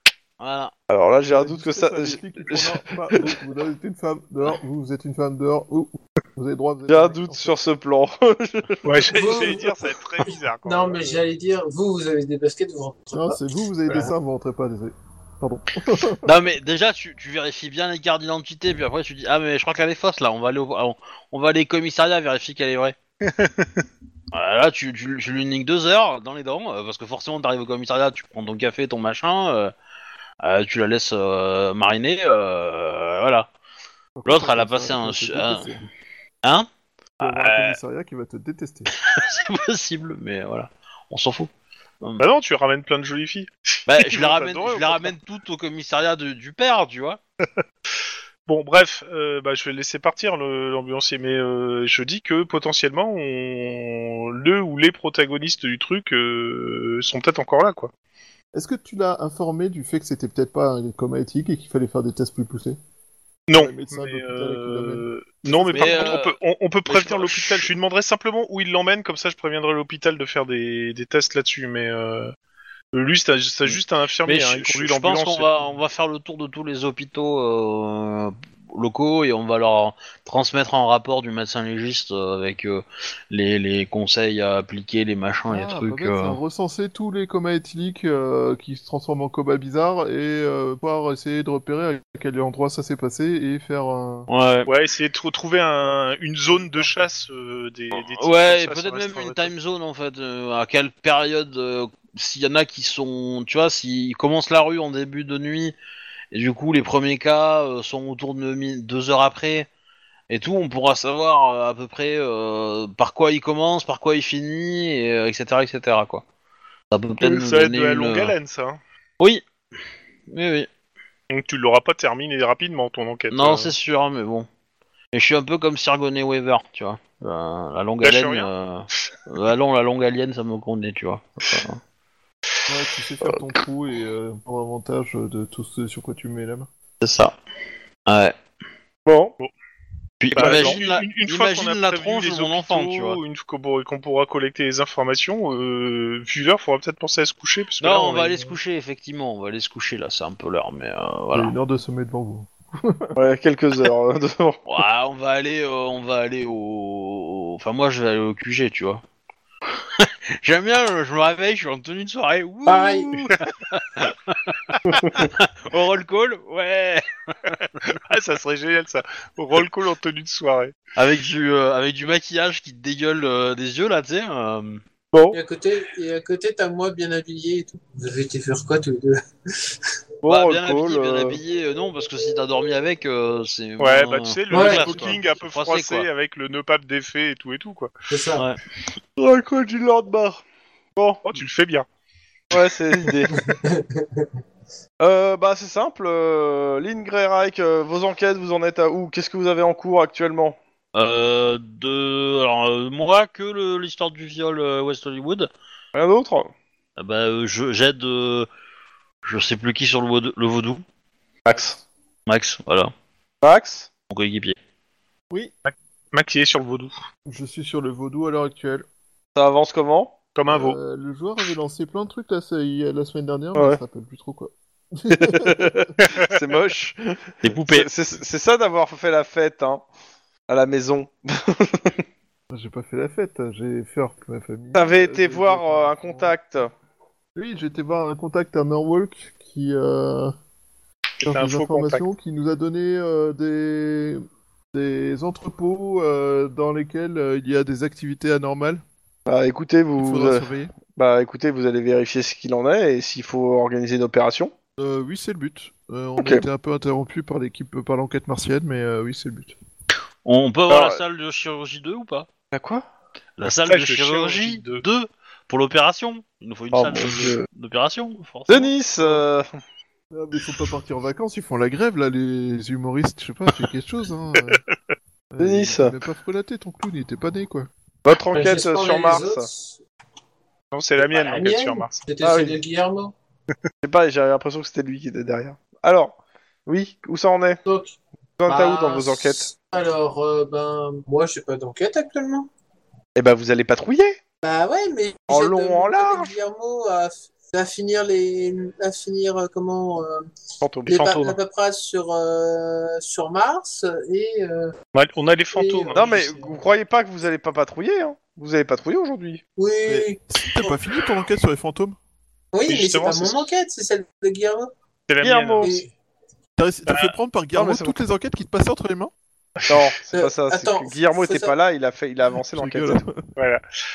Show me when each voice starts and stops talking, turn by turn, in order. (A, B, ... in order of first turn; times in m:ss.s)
0:00.4-0:00.7 A
0:00.9-0:03.4 B
0:01.2-0:07.5 C
0:06.9-0:09.6 B
0:08.8-0:11.1 D
0:09.1-0:09.7 E
0:10.6-0:14.1 E
0:13.1-0:16.3 C
0:16.2-0:23.0 A
0:23.2-0:23.7 D
0:24.3-0:29.7 A
0:30.4-0:33.5 A
0:34.2-0:35.8 C
0:34.2-0:35.7 A
0:37.2-0:37.8 A
0:37.2-0:38.9 C
0:39.0-0:41.5 A
0:42.2-0:45.1 D
0:43.9-0:47.2 A
0:48.5-0:57.9 D
0:58.5-1:02.8 C
1:03.5-1:12.3 D
1:03.5-1:06.2 C
1:05.7-1:06.4 A
1:06.9-1:07.7 A
1:12.9-1:15.5 D
1:13.6-1:26.4 A
1:25.5-1:34.3 C
1:34.3-1:34.7 A
1:34.7-1:39.5 D
1:38.0-1:45.8 A
1:46.3-1:49.7 A
1:50.3-1:56.2 A
1:56.9-1:58.4 A
1:57.2-1:58.8 D
2:00.3-2:00.7 A
2:01.3-2:03.7 D
2:03.3-2:04.5 A
2:05.1-2:11.8 A
2:08.0-2:08.5 D
2:12.7-2:16.7 C
2:17.0-2:17.4 A
2:18.1-2:18.4 A
2:19.1-2:19.4 B
2:20.2-2:23.2 A
2:20.4-2:20.8 B
2:20.4-2:28.6 D
2:27.8-2:31.6 A
2:31.3-2:33.2 C
2:33.2-2:34.6 B
2:34.7-2:39.0 A
2:40.0-2:47.5 A
2:42.7-2:43.3 E
2:47.9-2:50.7 D
2:51.0-2:54.8 A
2:55.1-2:55.4 B
2:55.3-2:59.7 E
3:00.2-3:01.4 B
3:00.2-3:06.1 A
3:03.8-3:07.9 D
3:04.5-3:04.8 E
3:08.1-3:08.4 E
3:09.2-3:10.4 B
3:11.0-3:11.2 B
3:11.2-3:11.9 D
3:12.5-3:13.3 B
3:13.3-3:14.2 E
3:15.0-3:20.6 B
3:20.9-3:25.5 A
3:25.9-3:26.5 B
3:27.0-3:28.5 A
3:29.2-3:30.8 A
3:31.4-3:31.8 B
3:32.3-3:32.9 A
3:33.4-3:33.9 B
3:34.1-3:34.6 A
3:35.7-3:37.0 D
3:37.3-3:38.8 C
3:39.4-3:40.1 B
3:40.4-3:40.8 D
3:40.5-3:45.8 C
3:45.1-3:49.8 B
3:46.0-3:46.3 D
3:47.4-3:47.9 A
3:50.5-3:52.0 B
3:52.5-3:56.4 C
3:54.8-3:56.7 B
3:57.4-4:00.3 C
4:01.2-4:02.1 D
4:01.2-4:08.8 C
4:09.3-4:14.5 B
4:10.0-4:10.8 C
4:14.8-4:19.6 C
4:16.2-4:16.4 B
4:20.2-4:22.3 A
4:20.7-4:21.0 B
4:22.5-4:22.8 B
4:23.4-4:29.2 A
4:23.4-4:24.8 D
4:26.7-4:27.5 B
4:28.5-4:29.5 B
4:30.1-4:34.6 C
4:35.3-4:37.7 C
4:35.4-4:36.0 B
4:38.0-4:39.5 B
4:38.3-4:39.8 E
4:40.7-4:42.0 D
4:41.0-4:43.1 E
4:42.2-4:42.6 B
4:43.8-4:47.6 B
4:47.7-4:48.0 E
4:48.4-4:49.5 B
4:48.5-4:52.5 E
4:53.2-4:54.2 B
4:54.4-5:00.3 E
4:55.3-4:56.3 B
5:00.6-5:01.4 B
5:00.9-5:04.8 E
5:04.9-5:06.2 D
5:05.5-5:06.6 E
5:05.9-5:09.4 B
5:09.6-5:10.2 E
5:09.9-5:12.0 C
5:12.5-5:14.7 E
5:12.7-5:13.5 D
5:15.1-5:15.8 D
5:15.2-5:15.8 B
5:15.6-5:15.9 E
5:16.6-5:19.1 C
5:16.9-5:17.1 D
5:17.5-5:18.0 B
5:19.6-5:19.9 D
5:19.7-5:23.0 B
5:20.1-5:21.5 E
5:22.5-5:23.3 C
5:23.4-5:23.6 D